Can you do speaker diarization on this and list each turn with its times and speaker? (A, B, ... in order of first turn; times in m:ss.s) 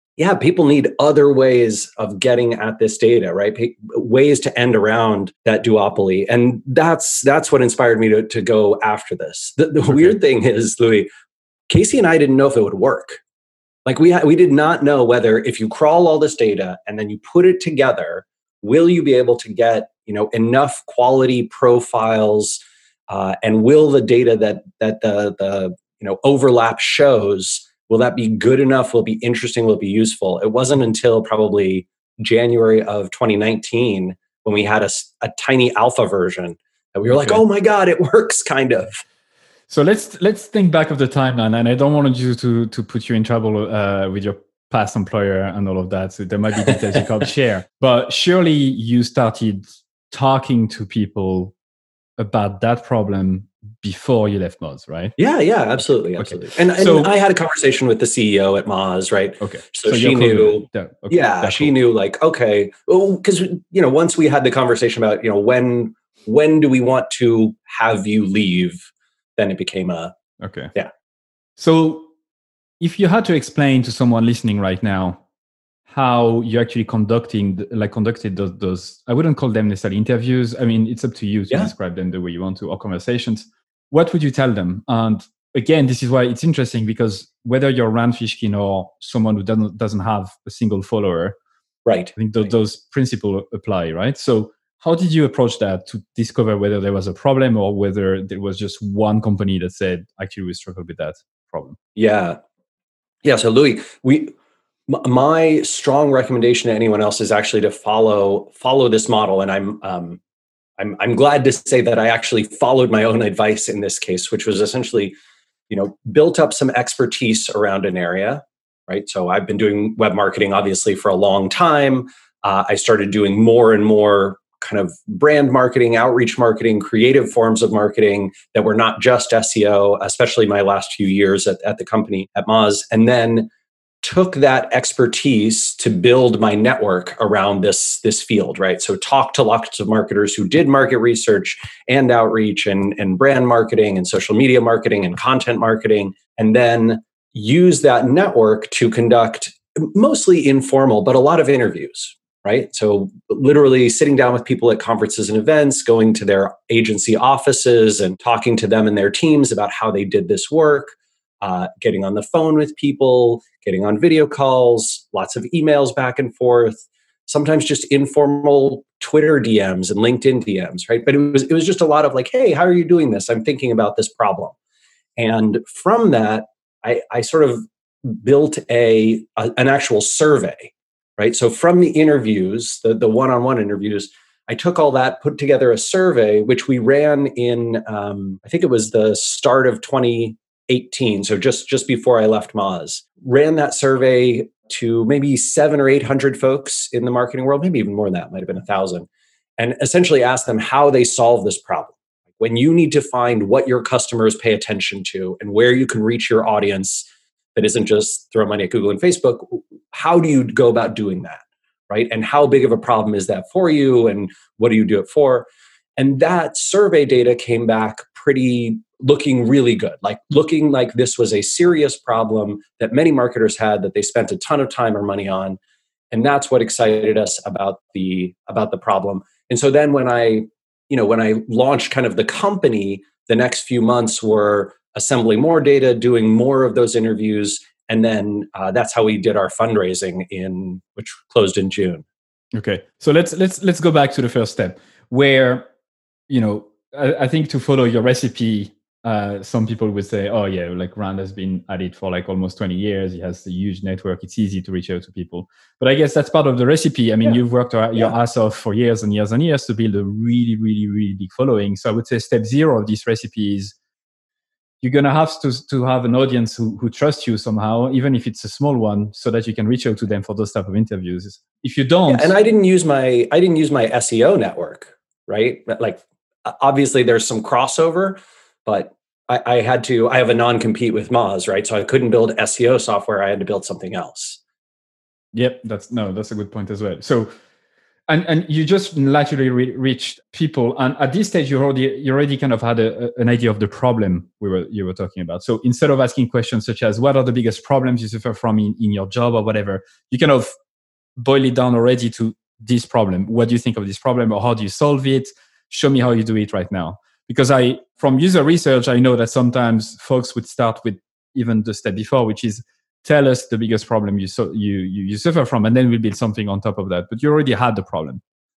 0:00.2-0:11.1 A
0:09.9-0:10.1 B
0:11.7-0:13.2 A
0:13.8-0:39.0 A
0:37.1-0:37.4 B
0:39.7-0:51.5 B
0:46.6-0:47.0 A
0:52.2-0:55.1 B
0:55.2-1:10.1 A
0:56.2-0:57.1 B
0:59.4-1:01.8 B
1:10.4-1:10.7 B
1:11.6-1:12.1 B
1:12.8-1:15.2 B
1:15.9-1:31.4 B
1:31.8-1:32.5 A
1:32.1-1:41.8 B
1:42.0-1:42.4 A
1:43.2-1:44.3 A
1:44.9-1:50.2 A
1:50.8-1:55.2 A
1:55.7-2:13.5 A
2:14.0-2:54.5 A
2:55.2-3:45.6 A
3:46.1-4:02.0 A
4:02.5-4:05.7 B
4:06.3-4:23.8 B
4:24.8-4:32.3 B
4:32.1-4:44.4 A
4:45.3-4:47.3 B
4:48.1-5:00.5 B
5:01.2-5:18.2 B